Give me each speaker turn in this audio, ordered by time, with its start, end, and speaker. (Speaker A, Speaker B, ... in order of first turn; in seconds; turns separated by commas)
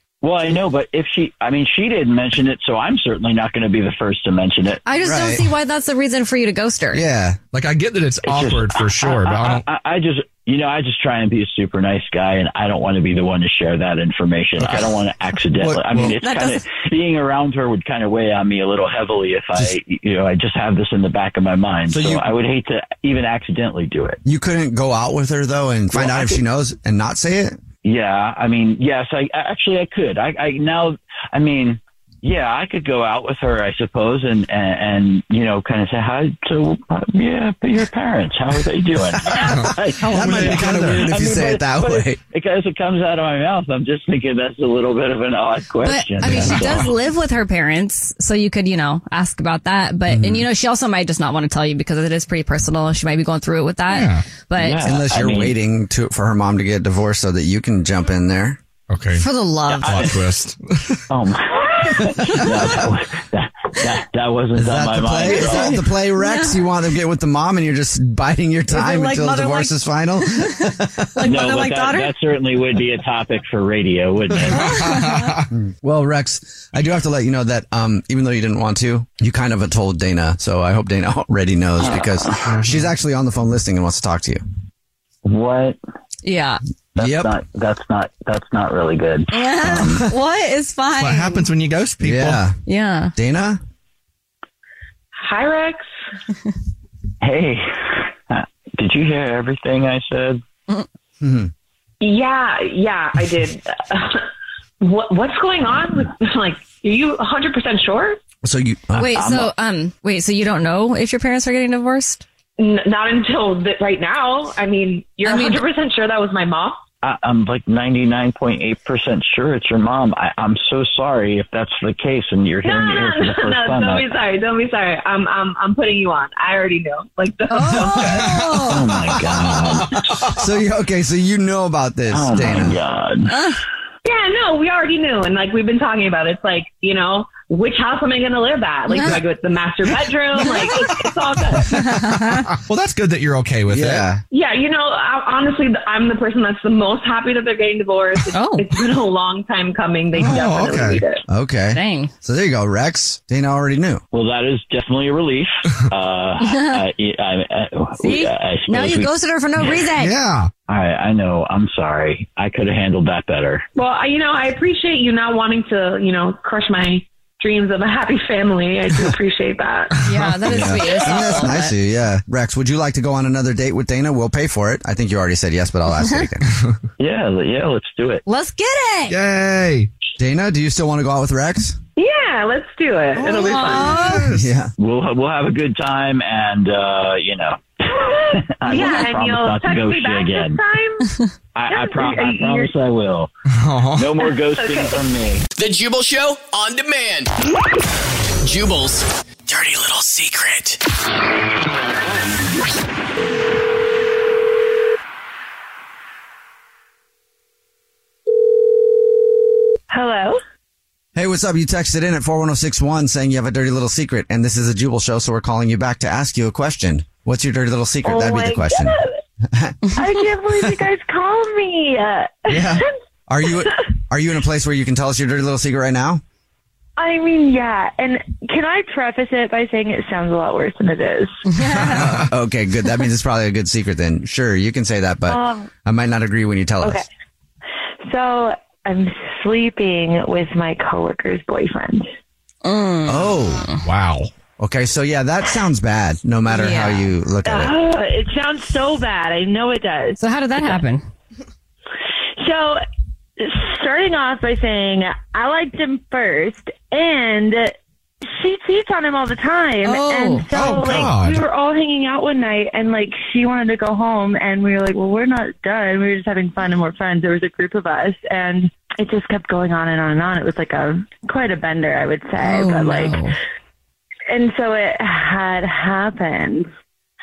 Speaker A: 0.2-4.8, Speaker B: 4.8-7.0, Speaker C: 5.0-5.5, Speaker C: 6.9-7.4, Speaker D: 7.5-9.6, Speaker A: 8.2-24.2, Speaker D: 14.6-14.9, Speaker D: 15.6-16.1, Speaker B: 16.2-16.6, Speaker C: 21.9-22.3, Speaker C: 24.2-27.6, Speaker A: 25.9-26.3, Speaker A: 27.8-46.9, Speaker C: 39.4-42.2, Speaker D: 39.4-41.1, Speaker B: 45.8-54.8, Speaker C: 46.2-46.6, Speaker C: 50.1-50.5, Speaker D: 53.9-54.2, Speaker A: 54.5-55.5, Speaker C: 54.8-58.6, Speaker D: 58.9-59.2, Speaker B: 59.2-60.1, Speaker A: 59.7-60.2, Speaker D: 59.8-61.0, Speaker A: 61.1-65.8, Speaker C: 64.5-71.3, Speaker B: 65.4-66.6, Speaker B: 68.7-69.8, Speaker B: 71.1-72.1, Speaker A: 71.2-74.9, Speaker D: 74.5-75.5, Speaker B: 74.5-75.3, Speaker C: 75.5-84.4, Speaker A: 81.8-82.4, Speaker A: 85.2-85.8, Speaker B: 86.2-86.6, Speaker A: 86.9-90.0, Speaker C: 87.0-87.4, Speaker B: 89.3-91.4, Speaker C: 89.7-90.0, Speaker D: 91.0-92.4, Speaker C: 92.0-92.6, Speaker B: 92.7-93.1, Speaker C: 93.2-93.6, Speaker E: 95.2-95.8, Speaker A: 97.2-100.4, Speaker C: 101.2-101.5, Speaker E: 102.0-104.2, Speaker E: 104.8-108.2, Speaker C: 108.4-109.3, Speaker B: 108.9-112.2, Speaker A: 109.0-109.5, Speaker E: 112.6-116.8, Speaker B: 115.2-115.6, Speaker A: 117.0-124.1, Speaker E: 122.6-128.3, Speaker B: 127.5-128.9, Speaker D: 128.0-128.7, Speaker A: 128.7-130.2, Speaker C: 130.3-132.8, Speaker A: 132.1-133.4, Speaker B: 133.3-133.6, Speaker E: 134.0-141.8, Speaker B: 138.9-139.2, Speaker B: 140.4-140.9, Speaker B: 141.7-142.5, Speaker D: 142.5-144.1, Speaker C: 143.7-144.2, Speaker E: 144.3-151.2, Speaker B: 148.3-148.7, Speaker D: 150.2-151.0, Speaker C: 151.3-154.0, Speaker B: 151.7-152.1, Speaker A: 154.1-159.8, Speaker B: 156.4-156.8, Speaker B: 158.0-160.1, Speaker D: 160.0-160.5, Speaker A: 160.7-163.7, Speaker E: 163.7-170.0, Speaker B: 170.0-171.7, Speaker D: 170.1-170.7, Speaker C: 170.5-176.4, Speaker A: 177.0-178.2, Speaker B: 178.2-179.2, Speaker D: 179.1-179.9, Speaker C: 180.2-181.8, Speaker E: 181.9-184.0, Speaker B: 183.2-184.3, Speaker D: 183.9-184.4, Speaker C: 184.3-184.7, Speaker A: 184.8-190.6, Speaker E: 187.9-191.0, Speaker A: 191.5-193.3, Speaker E: 191.7-192.7, Speaker D: 193.5-194.1, Speaker A: 193.9-195.4, Speaker E: 194.2-195.1, Speaker F: 195.6-197.3, Speaker F: 198.4-200.8, Speaker E: 209.9-210.2, Speaker G: 210.0-210.4, Speaker C: 211.1-220.8, Speaker G: 218.1-218.7, Speaker G: 219.9-222.7, Speaker C: 222.5-226.2, Speaker G: 227.0-231.4, Speaker B: 231.5-232.1, Speaker C: 231.8-237.0, Speaker G: 235.3-235.7, Speaker G: 238.0-242.1, Speaker B: 242.6-243.8, Speaker C: 243.1-243.6, Speaker D: 243.8-244.3, Speaker C: 244.6-247.8, Speaker B: 246.5-247.1, Speaker G: 247.4-250.8, Speaker B: 250.2-251.0, Speaker G: 252.4-252.8, Speaker G: 253.4-273.3, Speaker B: 259.8-260.8, Speaker D: 260.5-261.4, Speaker B: 272.4-273.4, Speaker G: 274.3-276.7